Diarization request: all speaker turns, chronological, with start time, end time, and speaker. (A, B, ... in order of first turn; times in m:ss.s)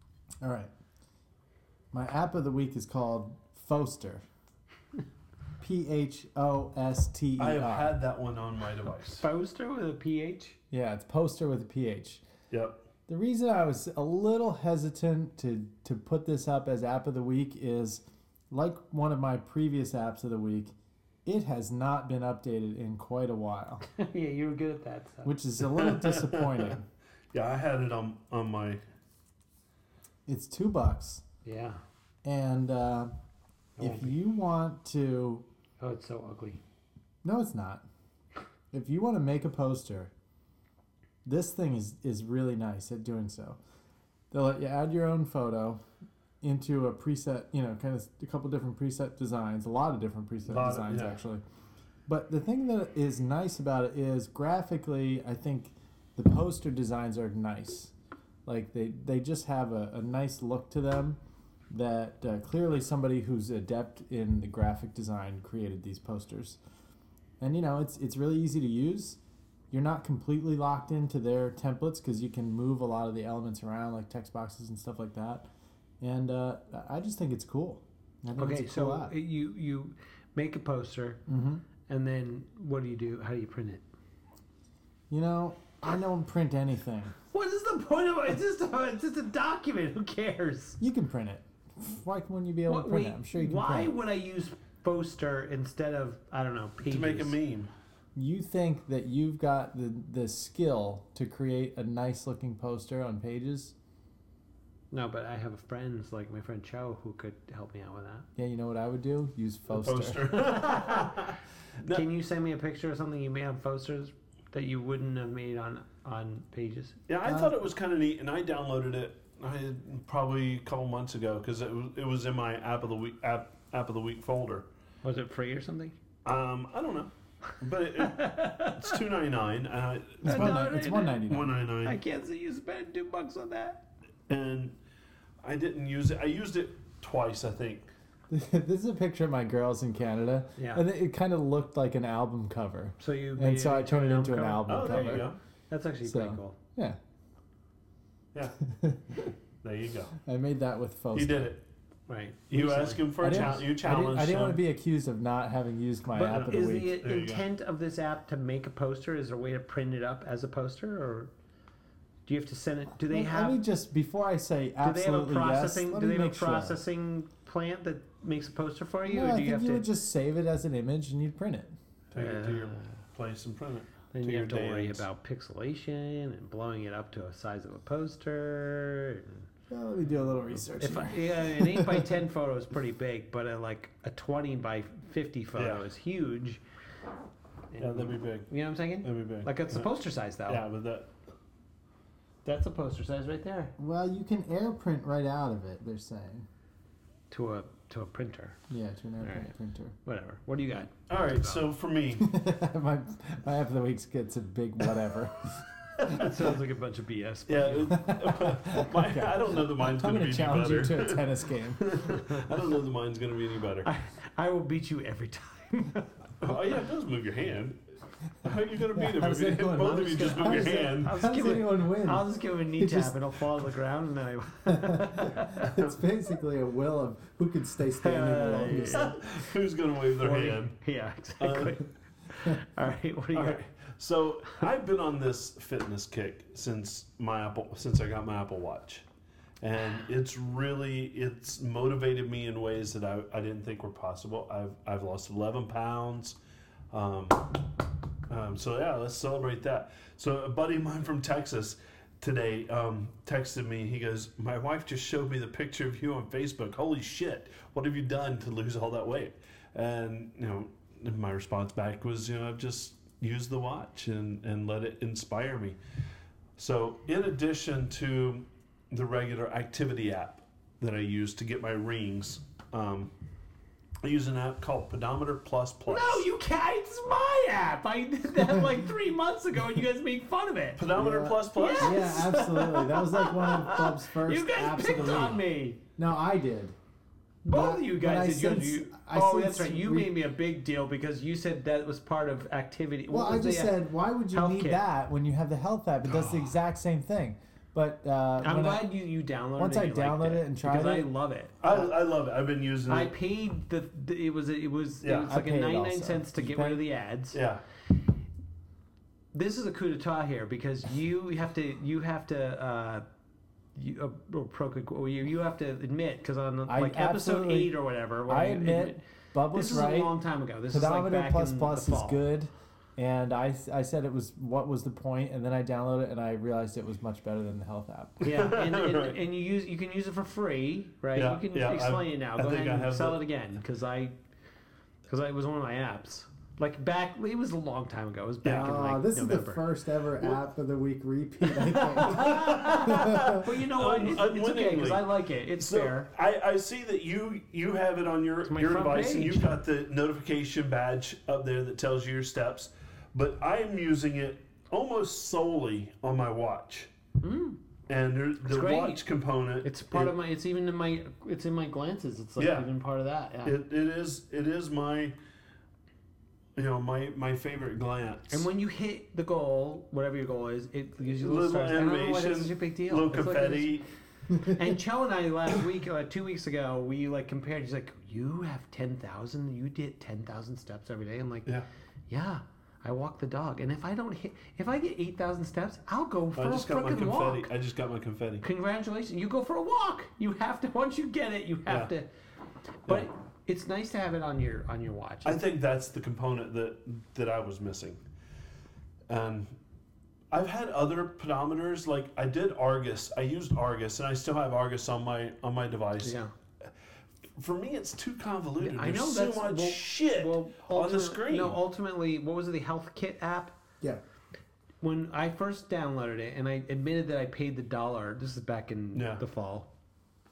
0:00.4-0:00.7 A
0:01.9-0:04.2 A
0:05.6-0:07.9 A
0:07.4-0:09.2 B
0:09.1-0:10.6 C
0:10.7-0:12.2 A
0:12.5-0:12.8 B
0:13.1-0:20.7 A
0:21.2-0:23.8 A
0:23.9-0:25.3 C
0:25.2-0:26.8 A
0:25.7-0:26.8 B
0:27.3-0:28.8 B
0:30.2-0:31.2 A
0:31.4-0:31.8 C
0:32.2-0:33.1 A
0:33.8-0:35.4 A
0:33.8-0:34.1 C
0:35.8-0:36.6 C
0:37.2-0:37.8 A
0:38.7-0:40.1 A
0:41.2-0:43.6 A
0:44.3-0:45.8 A
0:46.4-0:51.4 A
0:50.5-0:51.2 B
0:52.1-0:57.9 A
0:58.4-1:01.2 A
1:01.7-1:06.6 A
1:07.4-1:09.2 A
1:09.7-1:15.5 A
1:16.0-1:19.1 A
1:18.4-1:21.2 C
1:21.3-1:21.6 A
1:21.9-1:23.8 C
1:25.1-1:27.1 A
1:27.3-1:30.8 C
1:30.8-1:33.9 A
1:32.7-1:37.3 C
1:36.8-1:37.7 B
1:38.1-1:43.7 A
1:44.9-1:48.2 C
1:48.4-1:50.2 A
1:49.7-1:52.0 B
1:50.3-1:51.3 C
1:51.9-1:57.0 C
1:57.1-2:04.7 B
1:57.2-1:57.6 A
2:05.0-2:06.0 C
2:06.2-2:10.7 B
2:08.0-2:09.0 C
2:10.2-2:11.5 A
2:10.2-2:11.2 C
2:11.2-2:12.0 B
2:11.8-2:13.8 C
2:14.3-2:14.8 B
2:15.4-2:17.9 B
2:18.3-2:25.3 A
2:20.6-2:20.8 C
2:23.0-2:26.6 C
2:24.7-2:25.4 B
2:26.0-2:27.0 A
2:28.6-2:29.3 A
2:29.6-2:30.1 B
2:30.2-2:31.4 A
2:31.1-2:31.6 B
2:32.1-2:33.6 C
2:32.5-2:34.6 B
2:33.2-2:37.0 A
2:36.1-2:41.3 C
2:37.0-2:37.4 B
2:42.2-2:43.6 C
2:43.1-2:46.8 A
2:44.8-2:49.9 C
2:49.0-2:51.8 A
2:52.1-2:55.0 B
2:52.1-2:52.9 C
2:54.1-2:59.4 C
2:59.7-3:02.2 A
3:00.8-3:06.6 C
3:05.6-3:05.8 B
3:07.7-3:10.6 C
3:07.8-3:08.5 B
3:09.0-3:09.8 B
3:10.5-3:11.1 B
3:12.4-3:13.7 C
3:13.8-3:16.5 A
3:17.3-3:18.6 C
3:18.7-3:19.9 A
3:19.2-3:19.5 C
3:20.0-3:21.6 C
3:21.1-3:22.3 B
3:22.2-3:26.2 A
3:26.0-3:28.0 C
3:27.5-3:33.9 B
3:27.9-3:31.9 A
3:32.2-3:32.6 C
3:33.8-3:36.1 C
3:36.4-3:37.8 B
3:38.4-3:41.1 B
3:38.9-3:43.2 A
3:40.7-3:45.6 C
3:44.7-3:49.1 A
3:45.6-3:45.9 B
3:48.0-3:49.5 C
3:48.5-3:50.8 B
3:50.2-3:53.6 C
3:51.4-3:51.8 B
3:53.3-3:59.0 B
3:59.6-4:06.4 B
4:06.9-4:07.6 B
4:08.3-4:25.8 B
4:26.6-4:33.1 B
4:34.0-4:36.2 B
4:35.9-4:40.8 C
4:40.8-4:42.3 B
4:40.9-4:45.4 A
4:41.5-4:45.8 C
4:46.0-4:46.8 A
4:47.4-4:54.8 C
4:47.5-4:50.1 A
4:53.1-4:58.9 A
4:58.4-5:01.9 C
4:59.6-5:01.1 A
5:01.6-5:03.1 B
5:02.9-5:07.4 C
5:05.0-5:05.3 B
5:05.2-5:06.8 A
5:07.3-5:07.6 B
5:09.3-5:13.0 C
5:13.7-5:19.0 C
5:16.7-5:17.7 A
5:18.3-5:20.1 A
5:19.5-5:22.2 C
5:20.7-5:28.2 A
5:28.2-5:29.2 B
5:28.2-5:34.1 C
5:31.1-5:33.2 B
5:35.1-5:39.6 C
5:38.4-5:38.7 B
5:38.5-5:43.4 A
5:41.5-5:46.1 C
5:42.2-5:56.9 B
5:48.4-5:49.5 C
5:57.2-5:57.6 C
5:57.9-6:00.1 B
5:58.4-5:59.0 C
5:59.6-6:03.5 C
6:02.4-6:02.7 B
6:03.4-6:05.1 B
6:06.6-6:08.4 B
6:08.3-6:13.7 C
6:11.0-6:13.8 B
6:14.3-6:21.5 C
6:22.1-6:27.5 C
6:26.3-6:28.4 B
6:28.4-6:32.1 C
6:32.9-6:35.4 C
6:35.2-6:38.0 B
6:39.1-6:39.5 B
6:40.3-6:46.7 B
6:46.0-6:46.3 C
6:47.4-6:51.6 B
6:48.6-6:53.6 C
6:54.8-6:59.7 C
6:58.9-6:59.2 B